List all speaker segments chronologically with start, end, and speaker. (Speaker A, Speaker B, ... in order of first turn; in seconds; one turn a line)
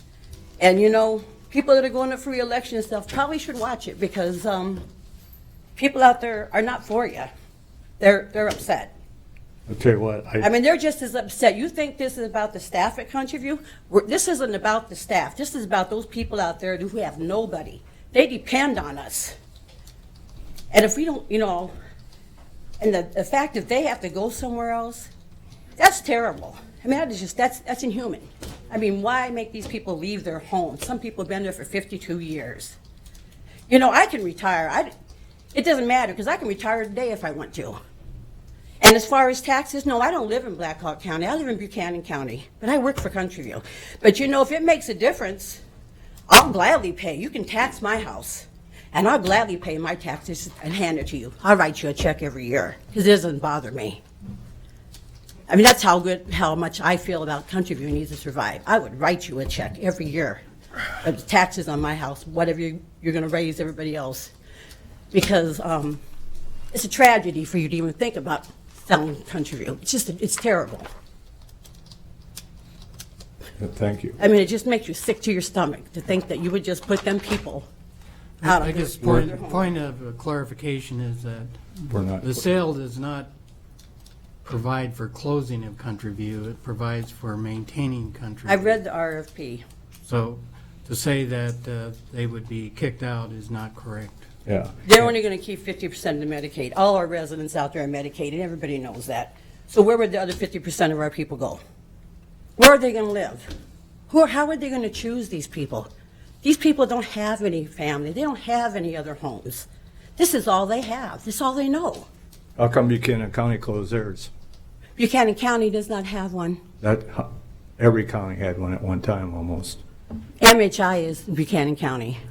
Speaker A: 0.6-4.8
Speaker A: 5.8-7.3
Speaker A: 8.0-8.9
Speaker B: 9.7-10.5
Speaker A: 10.4-19.3
Speaker A: 20.7-21.7
Speaker A: 22.8-25.1
Speaker A: 25.8-32.8
Speaker A: 33.7-34.9
Speaker A: 35.5-37.8
Speaker A: 38.8-45.6
Speaker A: 46.3-54.0
Speaker A: 55.5-60.4
Speaker A: 61.0-64.3
Speaker A: 65.1-66.0
Speaker A: 66.7-70.9
Speaker B: 73.6-74.2
Speaker A: 74.2-77.7
Speaker A: 78.4-79.7
Speaker C: 78.4-83.3
Speaker B: 81.9-82.5
Speaker C: 84.4-88.7
Speaker A: 88.5-89.6
Speaker C: 90.0-94.2
Speaker B: 94.5-95.0
Speaker A: 94.8-101.6
Speaker A: 102.6-103.4
Speaker A: 104.1-105.9
Speaker A: 106.4-112.1
Speaker B: 112.6-114.3
Speaker A: 115.0-116.6
Speaker B: 116.8-119.8
Speaker A: 120.4-122.2